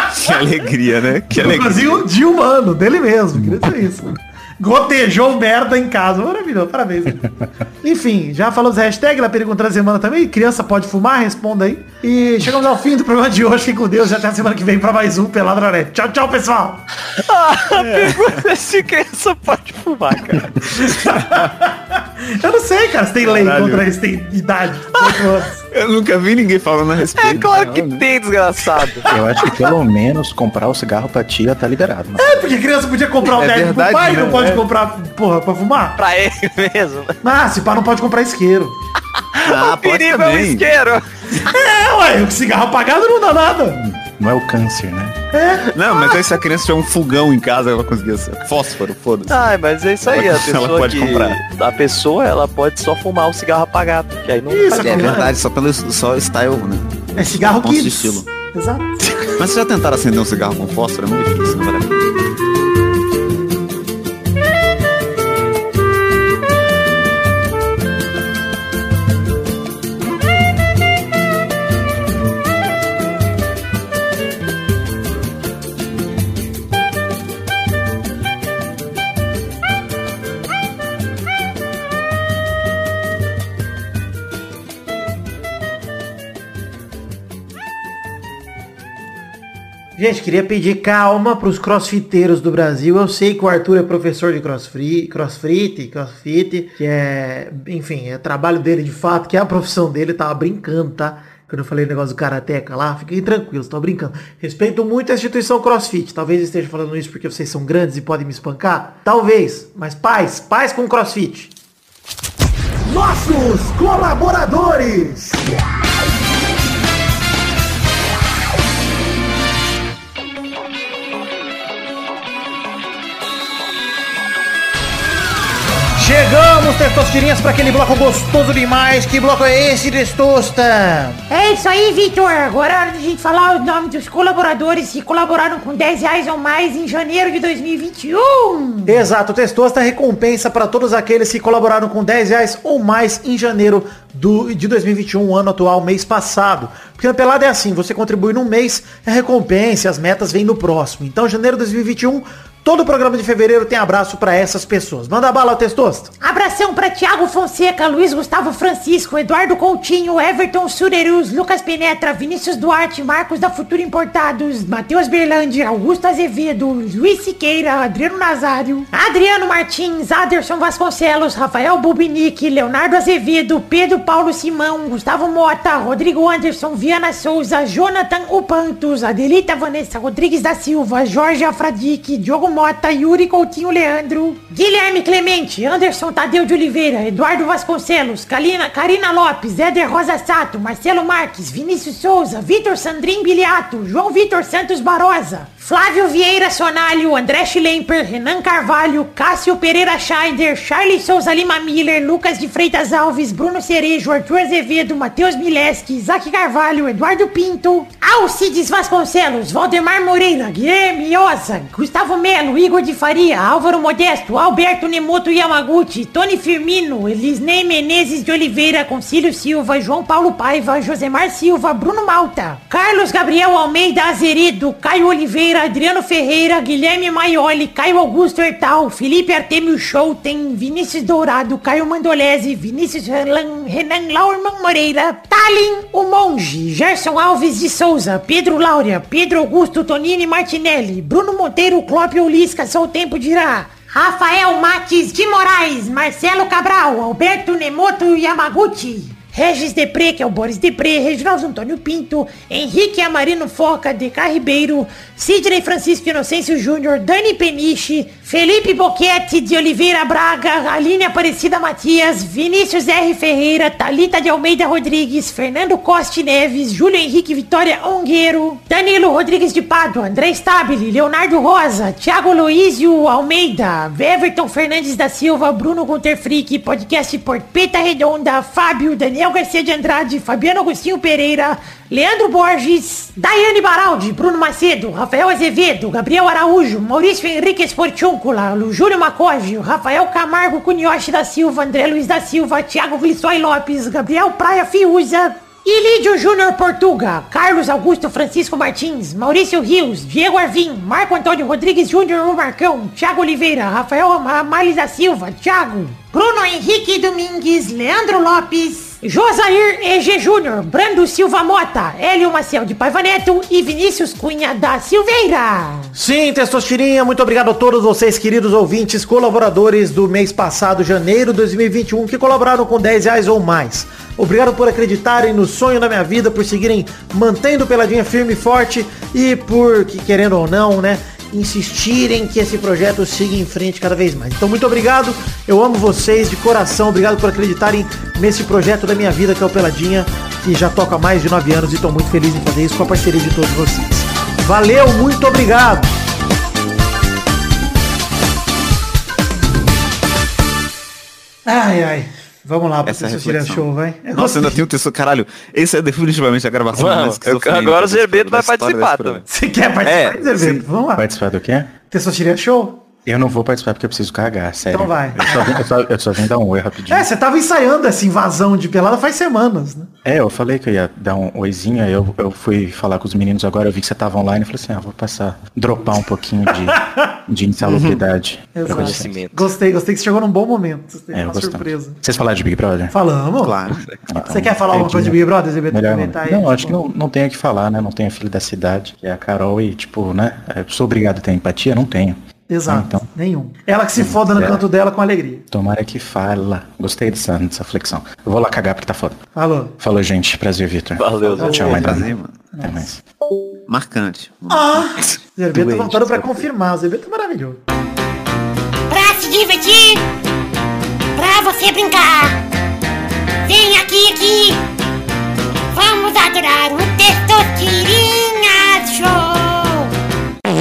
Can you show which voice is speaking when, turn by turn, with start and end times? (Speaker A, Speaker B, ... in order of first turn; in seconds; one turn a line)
Speaker A: 0.1-2.0
Speaker B: 1.3-7.3
Speaker B: 7.8-16.8
Speaker C: 17.2-21.1
Speaker B: 17.8-18.1
Speaker B: 20.7-25.6
Speaker A: 23.2-23.9
Speaker A: 25.7-28.1
Speaker C: 27.1-29.1
Speaker D: 29.1-32.4
Speaker B: 32.2-36.0
Speaker A: 33.2-34.7
Speaker C: 36.0-37.2
Speaker B: 37.2-38.8
Speaker C: 39.3-41.0
Speaker A: 39.4-40.6
Speaker B: 41.3-43.8
Speaker D: 43.9-45.2
Speaker B: 45.3-45.7
Speaker A: 45.7-49.4
Speaker C: 49.3-55.2
Speaker A: 50.0-51.4
Speaker B: 54.5-55.3
Speaker A: 54.7-58.3
Speaker B: 57.1-59.1
Speaker A: 59.3-62.2
Speaker B: 90.0-111.5
Speaker B: 112.8-115.4
Speaker B: 126.0-131.2
Speaker E: 131.3-139.1
Speaker B: 138.9-156.1
Speaker E: 156.2-315.9
Speaker B: 315.9-345.9
Speaker B: 351.4-354.6
Speaker A: 352.8-359.2
Speaker C: 356.8-359.2
Speaker B: 359.3-361.1
Speaker C: 359.9-360.2
Speaker A: 360.3-360.6
Speaker D: 360.9-361.7
Speaker B: 361.9-362.8
Speaker D: 363.1-367.1
Speaker B: 364.7-365.7
Speaker B: 366.9-369.9
Speaker D: 370.1-379.1
Speaker B: 376.6-377.1
Speaker A: 377.6-378.1
Speaker B: 378.6-382.0
Speaker C: 378.7-379.5
Speaker D: 381.1-382.9
Speaker B: 382.9-383.6
Speaker A: 383.4-383.9
Speaker D: 384.1-393.1
Speaker B: 384.3-386.8
Speaker B: 392.5-395.4
Speaker D: 393.9-394.6
Speaker D: 395.5-399.2
Speaker B: 399.3-399.7
Speaker D: 399.8-403.0
Speaker C: 401.0-401.8
Speaker A: 401.2-402.4
Speaker B: 401.4-402.9
Speaker A: 403.7-406.3
Speaker B: 404.5-407.6
Speaker E: 408.9-410.0
Speaker E: 411.1-412.4
Speaker E: 413.4-414.6
Speaker E: 415.7-419.9